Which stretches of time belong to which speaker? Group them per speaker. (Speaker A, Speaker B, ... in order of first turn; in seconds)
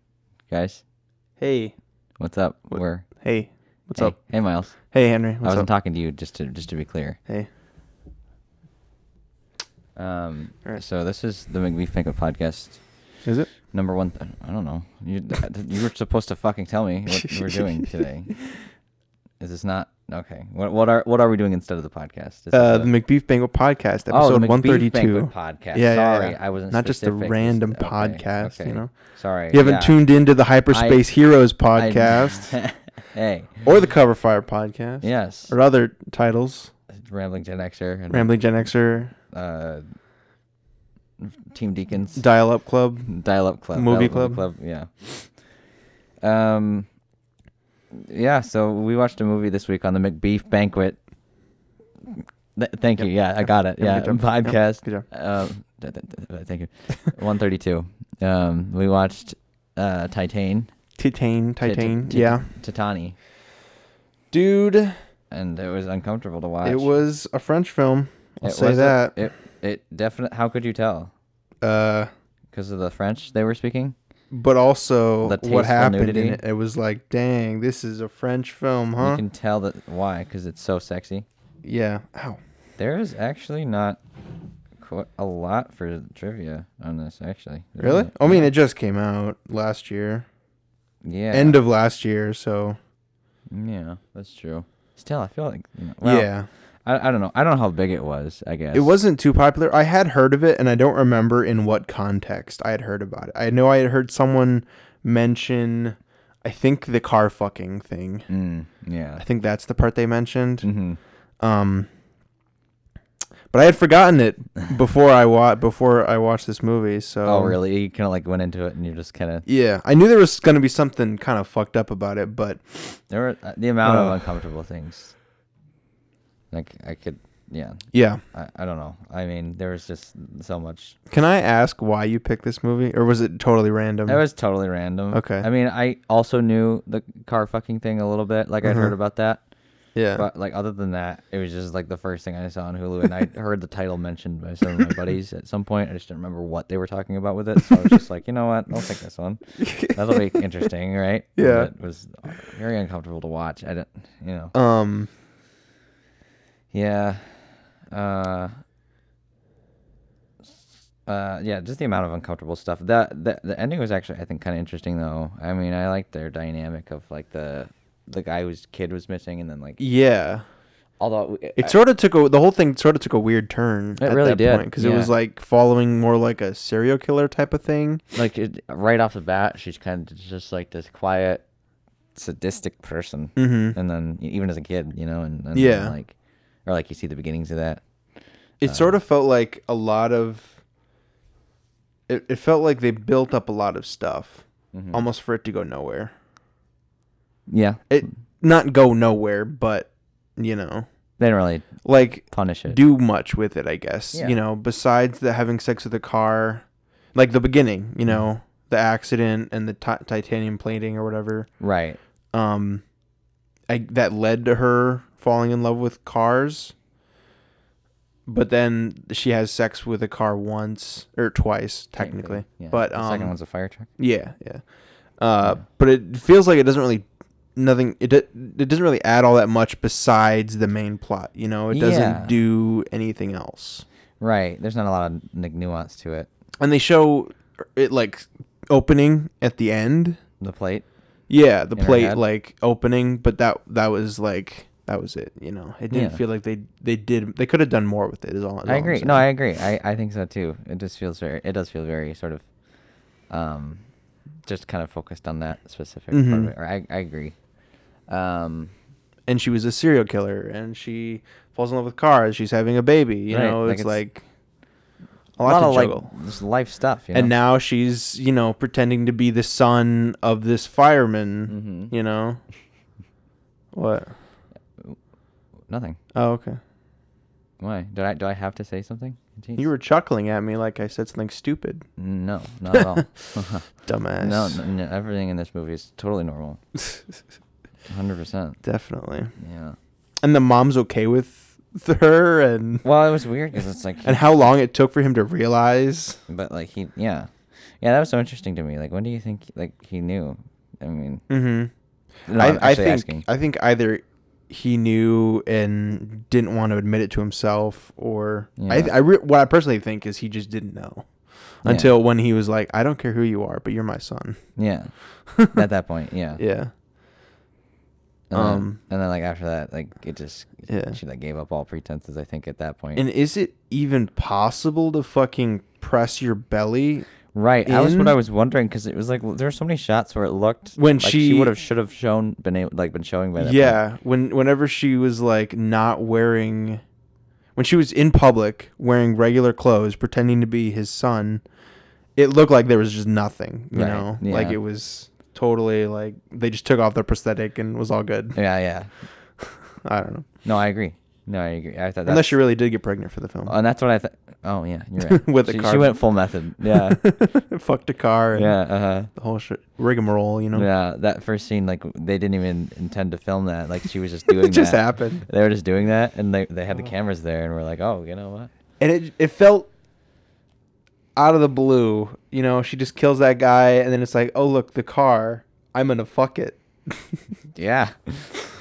Speaker A: 0.5-0.8, 2.2-3.1, 3.9-4.8, 5.4-7.2, 9.9-18.4, 19.4-22.9, 24.1-30.0, 30.7-31.0, 31.7-33.6, 35.0-35.5, 36.9-38.5, 39.3-39.8, 41.2-42.3, 43.1-45.4, 46.2-46.9, 47.9-51.0, 52.1-60.7, 61.6-63.2, 65.3-66.9, 68.4-71.1, 72.5-73.9, 75.2-76.4, 79.0-81.2, 82.8-84.0, 84.8-88.5, 91.0-91.6, 93.5-96.3, 96.8-99.0, 108.3-109.2, 110.6-111.0, 117.2-119.4, 123.1-125.2, 126.5-130.9, 134.1-139.4, 140.1-154.5, 156.7-158.5, 160.4-169.8, 171.0-171.8, 174.0-175.1, 178.1-181.4, 182.1-187.8, 188.6-188.9, 194.7-195.0, 197.5-198.1, 201.2-202.8, 211.6-212.0, 222.0-223.9, 231.7-232.4, 234.2-236.3, 240.4-240.8, 241.8-242.2, 245.9-246.2, 248.6-252.5, 253.3-253.9, 254.4-257.4, 258.1-258.7, 263.3-264.0, 265.4-267.3, 271.5-271.9, 275.7-276.0, 277.6-279.7, 282.0-286.6, 287.9-288.6, 289.4-289.8, 292.8-294.2, 296.3-301.2, 302.3-303.2, 308.6-308.9, 311.6-311.9, 314.6-314.9, 315.5-316.4, 318.3-323.1, 327.3-333.8, 343.7-344.6, 348.3-348.9, 350.4-352.4, 353.5-357.0, 358.3-359.1, 360.5-368.5, 377.6-378.3
Speaker B: 1.4-1.7, 2.7-5.7, 13.2-13.5, 17.1-17.6, 22.5-32.6, 33.6-36.7, 38.1-39.1, 42.1-43.1, 43.7-44.5, 53.0-55.1, 61.0-62.5, 64.3-64.9, 66.6-69.2, 71.6-72.1, 74.3-79.2, 81.6-82.4, 87.8-90.2, 91.3-92.8, 96.0-96.5, 98.7-108.3, 109.2-110.7, 111.4-111.9, 113.5-117.6, 119.5-123.0, 123.8-124.4, 127.9-128.2, 131.1-134.2, 135.1-135.5, 138.6-138.9, 139.9-140.2, 149.6-150.0, 151.3-151.7, 154.5-155.1, 169.8-170.4, 171.6-178.0, 183.3-183.8, 185.5-185.9, 188.6-190.6, 192.1-196.1, 197.9-200.9, 201.8-211.5, 212.3-212.8, 213.7-216.7, 218.3-223.4, 224.0-224.6, 225.2-233.8, 236.6-240.2, 241.3-249.3, 256.1-256.5, 259.3-264.2, 265.4-266.1, 267.1-272.4, 273.7-274.1, 276.1-276.6, 279.6-281.8, 282.7-283.1, 283.8-284.6, 288.6-289.3, 290.2-292.8, 294.0-296.2, 301.3-301.7, 302.3-314.4, 315.3-315.6, 316.4-316.7, 318.3-318.8, 320.7-321.0, 322.9-327.1, 327.6-328.2, 330.8-331.5, 333.4-336.8, 337.6-341.4, 342.1-348.4, 349.8-350.2, 352.1-353.5, 355.0-356.0, 356.7-358.6, 359.1-360.7, 364.3-365.2, 368.8-369.7, 371.1-377.3